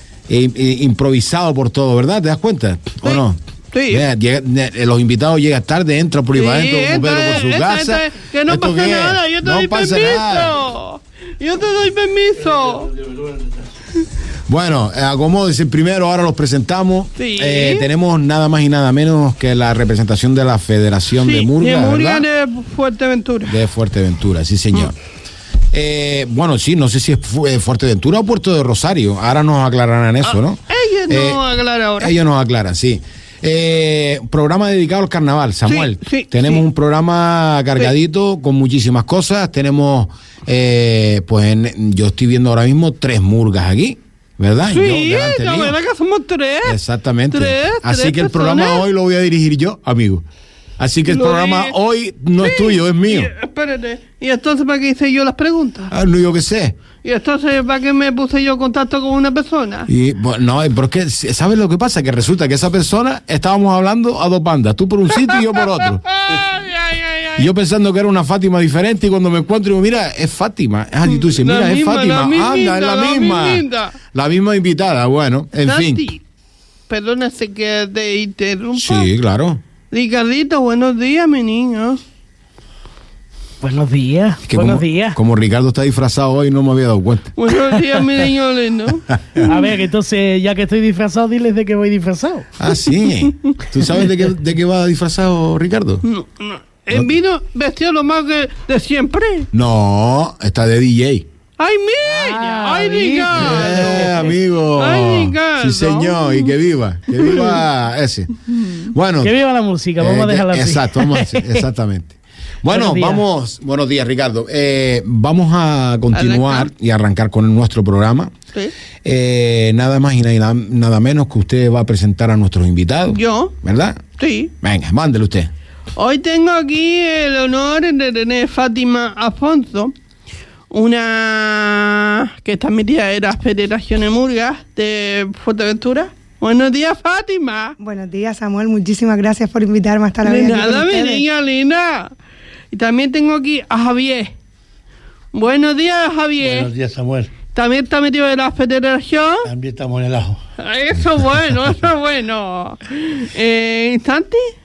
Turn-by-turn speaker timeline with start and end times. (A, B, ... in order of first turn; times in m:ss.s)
0:00.3-0:10.6 A
0:03.0-0:04.0 B
0:06.3-0:12.9 B
0:12.5-0:13.7 C
0:14.5-0:22.3 A
0:17.2-0:17.9 B
0:21.2-0:23.6 B
0:23.4-0:24.9 A
0:25.7-0:31.4 A
0:30.2-0:32.2 B
0:32.0-0:45.8 A
0:35.7-0:36.6 B
0:44.7-0:46.8 B
0:46.6-0:50.2 A
0:47.3-0:48.8 B
0:50.8-0:53.3 A
0:51.1-0:51.7 B
0:52.4-0:55.9 B
0:55.9-0:56.8 A
0:57.0-0:59.9 B
0:59.9-1:06.0 A
1:05.2-1:07.5 B
1:07.4-1:16.0 A
1:11.3-1:14.0 B
1:15.6-1:16.2 B
1:16.9-1:19.1 B
1:18.8-1:19.6 A
1:19.9-1:22.0 B
1:23.6-1:25.2 D
1:24.5-1:27.4 A
1:27.4-1:29.2 B
1:29.4-1:32.5 D
1:32.6-1:36.0 A
1:33.3-1:33.6 B
1:36.0-1:39.5 B
1:39.5-1:41.3 A
1:41.6-1:46.5 B
1:42.1-1:44.2 D
1:43.3-1:49.4 A
1:47.1-1:47.6 B
1:49.2-1:51.6 D
1:50.0-1:58.3 A
1:52.7-1:53.2 D
1:56.1-1:56.7 B
1:59.0-2:04.0 A
2:03.1-2:03.6 B
2:04.2-2:04.5 B
2:04.6-2:05.5 A
2:06.0-2:09.9 B
2:10.7-2:17.8 B
2:17.8-2:21.2 E
2:20.2-2:22.1 B
2:22.7-2:24.3 B
2:25.3-2:26.7 B
2:26.4-2:27.3 C
2:27.5-2:29.5 B
2:29.5-2:30.4 C
2:30.6-2:34.5 B